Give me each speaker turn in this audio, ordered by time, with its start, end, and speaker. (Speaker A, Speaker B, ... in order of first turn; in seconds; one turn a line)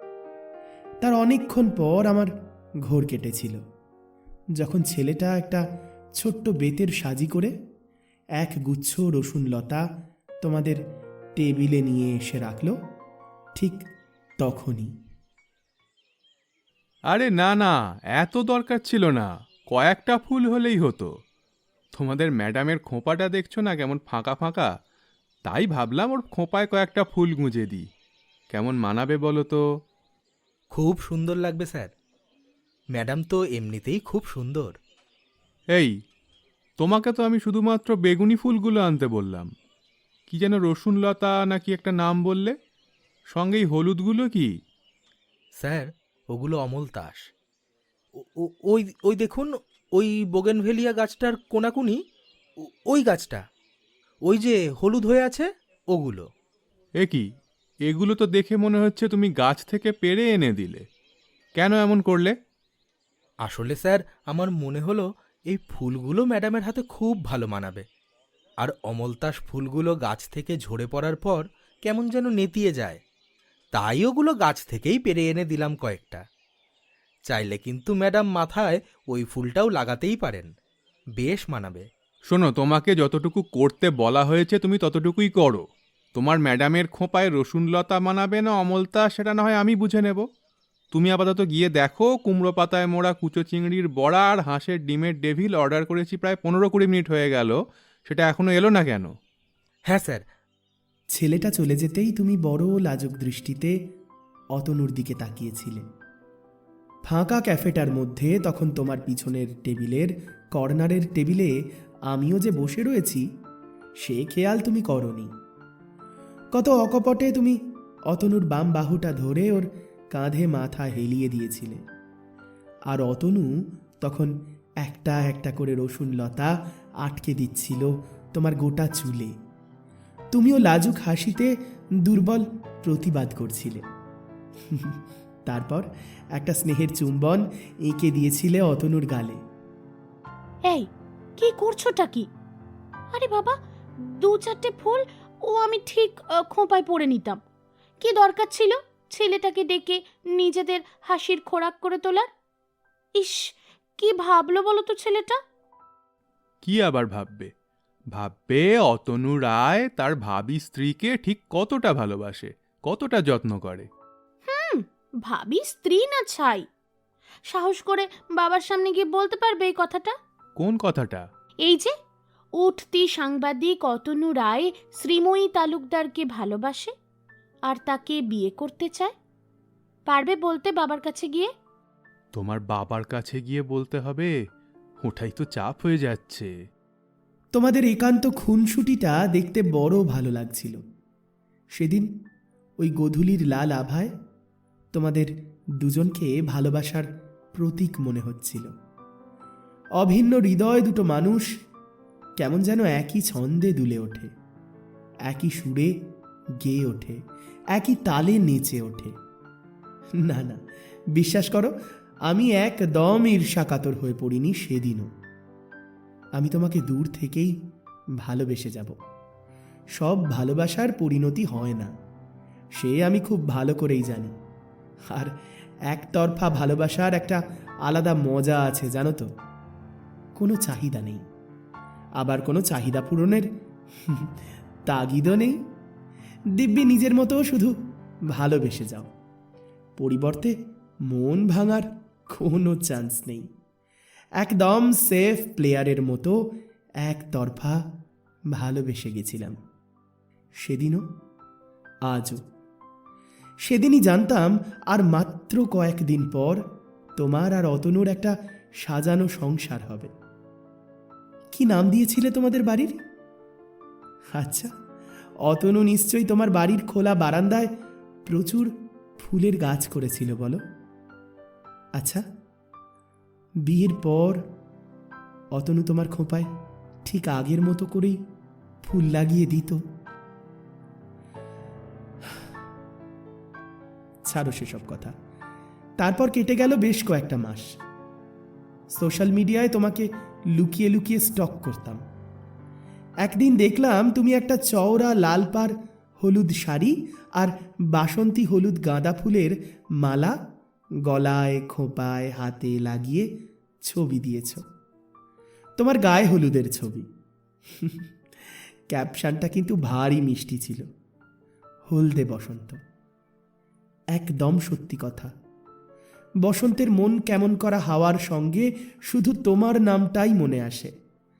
Speaker A: 1.0-2.3
Speaker A: 2.9-3.6
Speaker A: 4.6-5.6
Speaker A: 6.2-7.5
Speaker A: 8.4-9.8
Speaker A: 10.4-10.8
Speaker A: 11.4-12.8
Speaker A: 13.6-13.8
Speaker A: 14.4-14.9
Speaker B: 17.1-21.1
Speaker B: 21.9-24.7
Speaker B: 25.4-27.9
Speaker B: 28.5-29.6
Speaker C: 30.7-31.9
Speaker C: 32.9-34.8
Speaker B: 36.8-39.5
Speaker B: 40.3-42.5
Speaker B: 43.3-44.5
Speaker C: 45.6-47.3
Speaker C: 48.1-52.0
Speaker C: 52.6-53.4
Speaker C: 54.2-56.3
Speaker B: 57.0-57.2
Speaker B: 57.9-60.9
Speaker B: 61.5-62.4
Speaker C: 63.4-67.8
Speaker C: 68.6-73.0
Speaker C: 73.7-76.2
Speaker C: 77.3-80.5
Speaker C: 81.2-81.9
Speaker B: 82.3-85.6
Speaker B: 86.1-90.2
Speaker B: 90.9-99.1
Speaker C: 99.9-100.2
Speaker A: 101.2-103.7
Speaker A: 104.5-105.8
Speaker A: 107.1-111.5
Speaker A: 112.1-113.2
Speaker A: 114.0-115.3
Speaker A: 116.5-117.6
Speaker A: 118.1-121.8
Speaker A: 122.9-126.5
Speaker A: 127.0-129.3
Speaker A: 130.3-133.9
Speaker A: 134.7-139.4
Speaker D: 140.7-142.3
Speaker D: 143.1-147.4
Speaker D: 148.0-152.3
Speaker D: 153.2-155.4
Speaker B: 156.6-157.5
Speaker B: 158.1-163.9
Speaker D: 164.5-166.7
Speaker D: 167.5-170.2
Speaker B: 170.6-171.2
Speaker D: 171.6-171.9
Speaker D: 172.6-176.9
Speaker D: 177.7-179.1
Speaker D: 180.1-181.5
Speaker B: 182.3-184.3
Speaker B: 185.0-186.5
Speaker A: 187.5-190.8
Speaker A: 191.7-192.1
Speaker A: 192.8-194.1
Speaker A: 194.9-198.7
Speaker A: 200.0-201.5
Speaker A: 202.4-204.3
Speaker A: 205.3-205.9
Speaker A: 206.6-207.2
Speaker A: 207.7-209.1
Speaker A: 210.2-210.6
Speaker A: 211.2-211.7
Speaker A: 212.3-215.1
Speaker A: 216.4-217.5
Speaker A: 218.2-219.0
Speaker A: 219.9-221.9
Speaker A: 222.8-224.3
Speaker A: 225.9-229.3
Speaker A: 230.4-231.2
Speaker A: 232.2-233.5
Speaker A: 234.0-234.3
Speaker A: 234.9-235.6
Speaker A: 236.6-237.7
Speaker A: 238.3-239.1
Speaker A: 240.0-240.6
Speaker A: 241.1-243.5
Speaker A: 244.4-246.4
Speaker A: 247.0-247.8
Speaker A: 248.5-249.6
Speaker A: 250.6-251.0
Speaker A: 252.1-252.4
Speaker A: 253.6-256.6
Speaker A: 257.2-260.1
Speaker A: 261.5-263.0
Speaker A: 264.3-264.7
Speaker A: 265.4-267.7
Speaker A: 268.3-270.6
Speaker A: 272.0-272.2
Speaker A: 273.6-274.4
Speaker A: 275.5-276.5
Speaker A: 277.1-278.2
Speaker A: 278.8-279.8
Speaker A: 284.3-285.1
Speaker A: 286.0-287.8
Speaker A: 288.9-292.0
Speaker A: 293.2-300.4
Speaker A: 301.1-303.3
Speaker A: 303.8-304.6
Speaker A: 305.8-307.1
Speaker A: 307.8-310.9
Speaker A: 311.9-312.8
Speaker A: 314.1-315.3
Speaker A: 316.4-320.9